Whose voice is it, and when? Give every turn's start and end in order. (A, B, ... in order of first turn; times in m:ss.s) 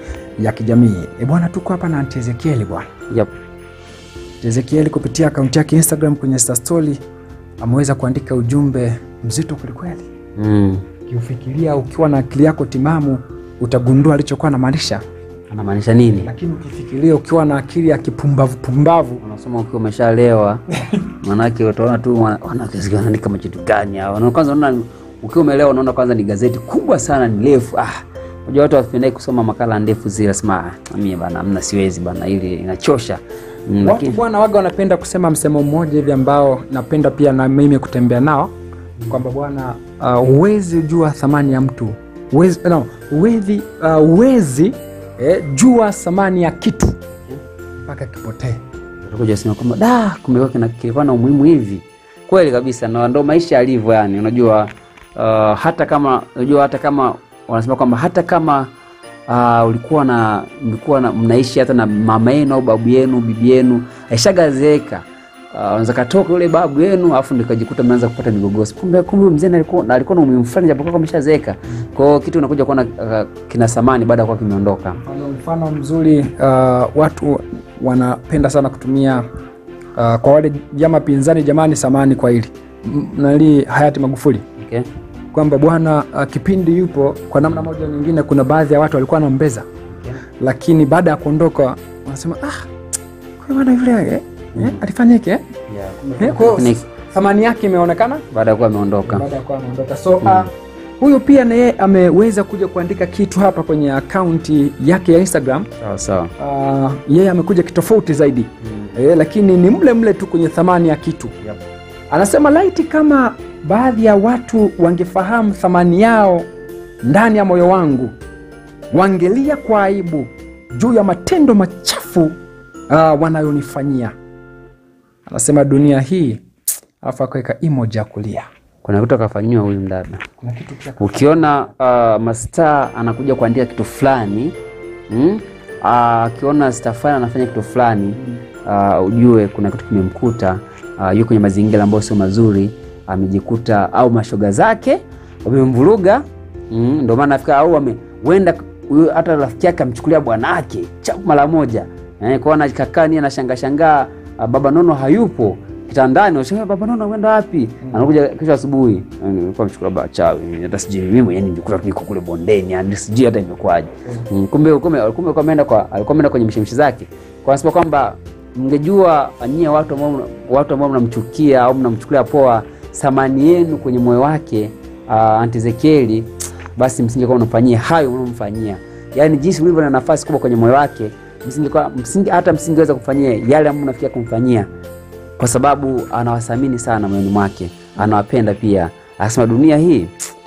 0:00.4-0:02.9 A
0:04.4-0:07.0 A
0:07.6-0:10.1 A
0:10.4-0:10.8 B
0:11.1-0:15.0 A
0:15.5-0:16.3 B
0:16.2-0:19.2 A
0:19.2-0:20.6 B
0:21.2-0:34.2 B
0:33.8-0:38.5 A
0:39.0-0:39.2 B
0:39.1-0:47.0 A
0:47.8-0:48.6 A
0:49.0-0:58.7 B
0:59.3-1:15.0 B
1:15.0-1:19.2 A
1:20.0-1:24.4 A
1:24.6-1:24.9 B
1:25.3-1:29.7 A
1:27.4-1:27.7 B
1:29.9-1:30.2 B
1:30.4-1:32.7 A
1:33.4-1:35.4 A
1:34.6-1:34.8 B
1:35.7-1:36.8 B
1:36.2-1:38.2 A
1:38.3-1:39.2 B
1:39.0-1:45.7 A
1:40.2-1:40.5 B
1:45.8-1:46.3 B
1:46.4-1:51.3 A
1:48.6-1:49.0 B
1:52.1-1:56.5 A
1:57.0-1:58.1 A
1:58.9-2:02.4 A
2:02.9-2:04.1 A
2:05.3-2:06.4 A
2:07.0-2:08.5 A
2:08.8-2:10.2 B
2:10.4-2:11.4 A
2:11.0-2:14.6 B
2:15.1-3:04.7 B
2:37.8-2:38.1 A
3:05.4-3:10.1 B